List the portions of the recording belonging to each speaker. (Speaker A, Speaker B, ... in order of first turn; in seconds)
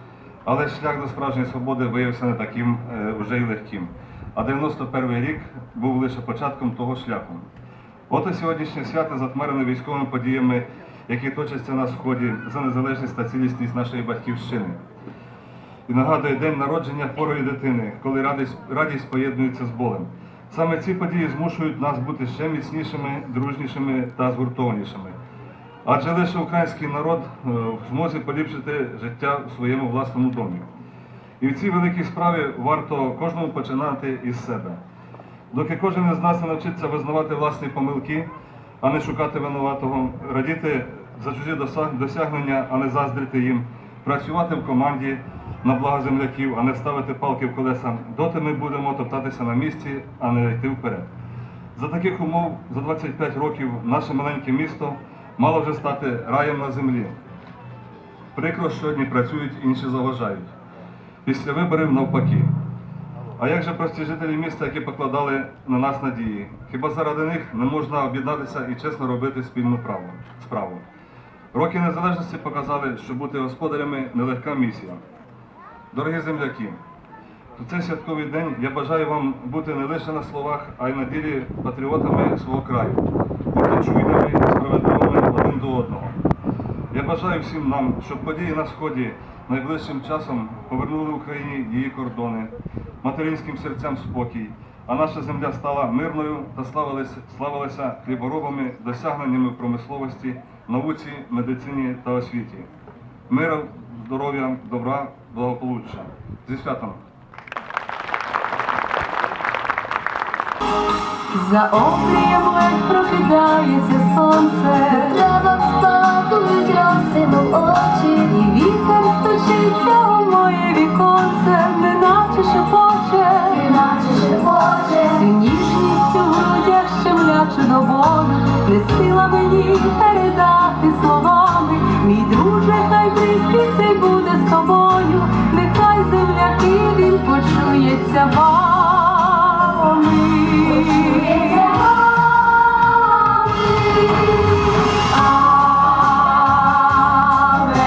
Speaker A: 0.5-7.5, 8.1-14.8, 15.9-25.1, 25.8-30.7, 31.4-34.8, 35.5-38.3, 38.8-51.1, 51.7-57.2, 58.4-60.5, 61.2-62.5, 63.4-70.8, 71.5-75.0, 75.9-76.8, 77.6-86.2, 86.9-102.7, 103.3-107.0
Speaker B: 111.3-115.2, 118.3-123.6, 125.1-141.6, 147.2-147.7
Speaker C: 114.9-118.3, 123.5-125.2, 141.4-141.9, 142.9-144.3